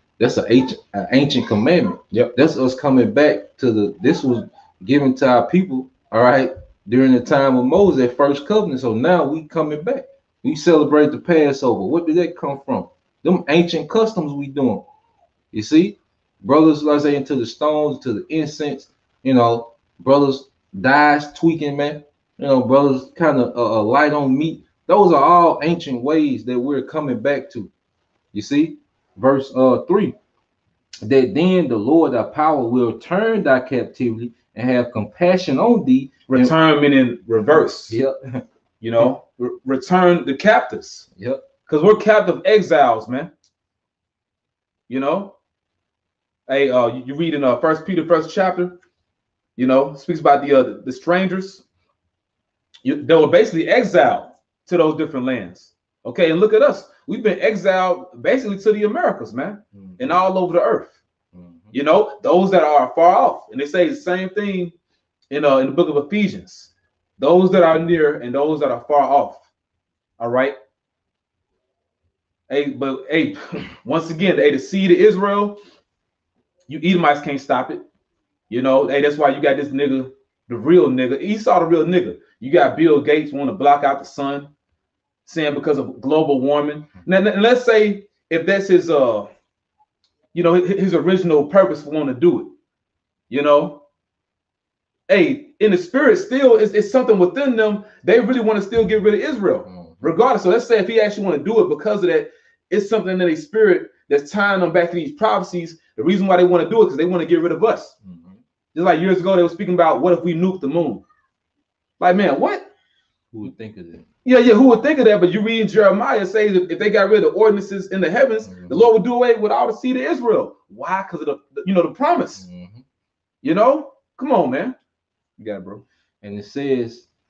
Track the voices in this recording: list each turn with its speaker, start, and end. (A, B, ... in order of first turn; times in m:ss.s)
0:00.2-0:14.8 A
0:15.5-0:27.7 A
0:28.3-0:30.2 A
0:31.0-0:36.5 A
0:36.3-0:38.0 B
0:37.8-0:38.4 A
0:38.8-0:41.1 B
0:41.2-0:41.4 A
0:41.7-0:43.3 B
0:44.9-0:45.3 B
0:46.5-0:48.8 B
0:49.6-0:51.6 B
0:52.8-1:01.0 B
0:59.8-1:00.1 A
1:01.3-1:01.7 A
1:01.7-1:04.7 B
1:05.3-1:09.4 B
1:10.2-1:10.6 B
1:12.5-1:15.6 B
1:16.7-1:17.8 B
1:18.5-1:24.5 B
1:25.2-1:29.3 B
1:30.3-1:32.5 B
1:33.3-1:33.8 B
1:35.1-1:48.0 B
1:39.6-1:40.1 A
1:48.0-1:48.4 A
1:48.7-1:51.0 B
1:52.0-1:52.7 B
1:53.3-1:54.1 A
1:54.2-2:02.4 B
1:58.4-1:58.9 A
2:02.4-2:02.8 A
2:03.4-2:04.8 B
2:05.4-2:05.8 B
2:06.2-2:07.1 A